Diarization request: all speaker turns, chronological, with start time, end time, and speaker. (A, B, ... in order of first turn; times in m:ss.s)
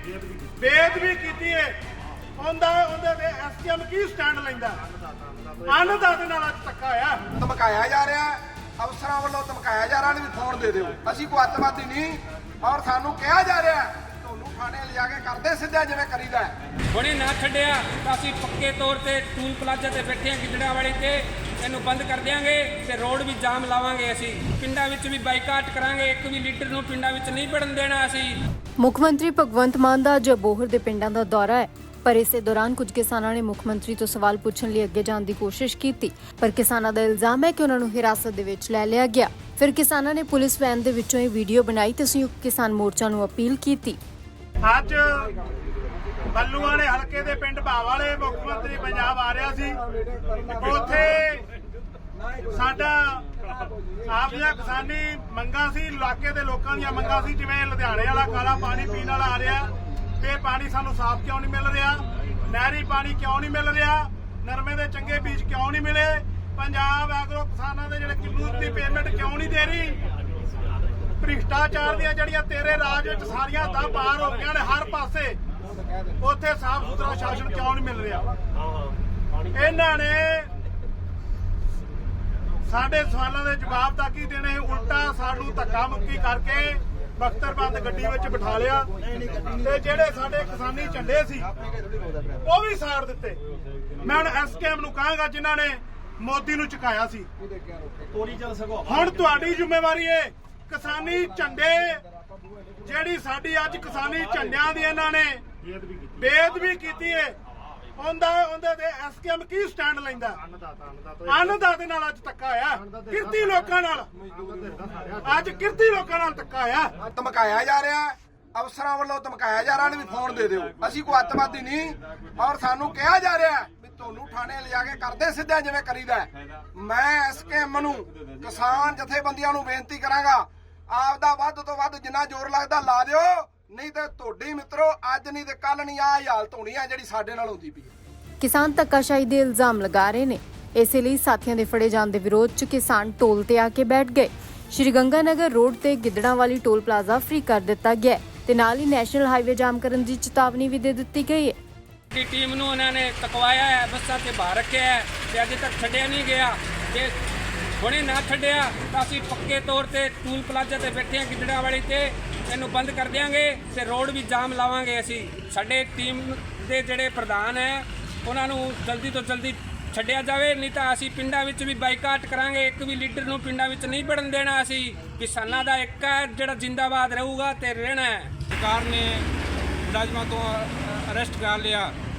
0:00.6-0:01.8 A
0:02.4-0:04.8 A
0:05.6-0:07.2 A
0:07.4-0:16.5 B
0:16.9-0:28.3 C
0:28.8-0:44.0 D
0:44.6-0:45.3 A
0:46.3-0:49.8 A
0:50.4-0:51.4 A
0:52.5-0:53.2 A
0:54.0-1:10.0 A
1:11.2-1:15.4 A
1:16.2-1:18.3 A
1:19.5-1:20.5 A
1:22.6-1:31.5 A
1:32.4-1:33.4 A
1:34.0-1:37.3 A
1:38.6-1:42.0 A
1:42.8-1:45.4 A
1:46.1-1:47.4 A
1:48.0-1:50.4 A
1:51.2-1:54.1 A
1:55.2-1:56.9 A
1:57.1-2:17.9 B
2:18.4-2:31.6 D
2:32.1-2:37.1 C
2:37.8-2:58.3 C
2:58.5-2:59.2 E
2:59.8-3:01.9 E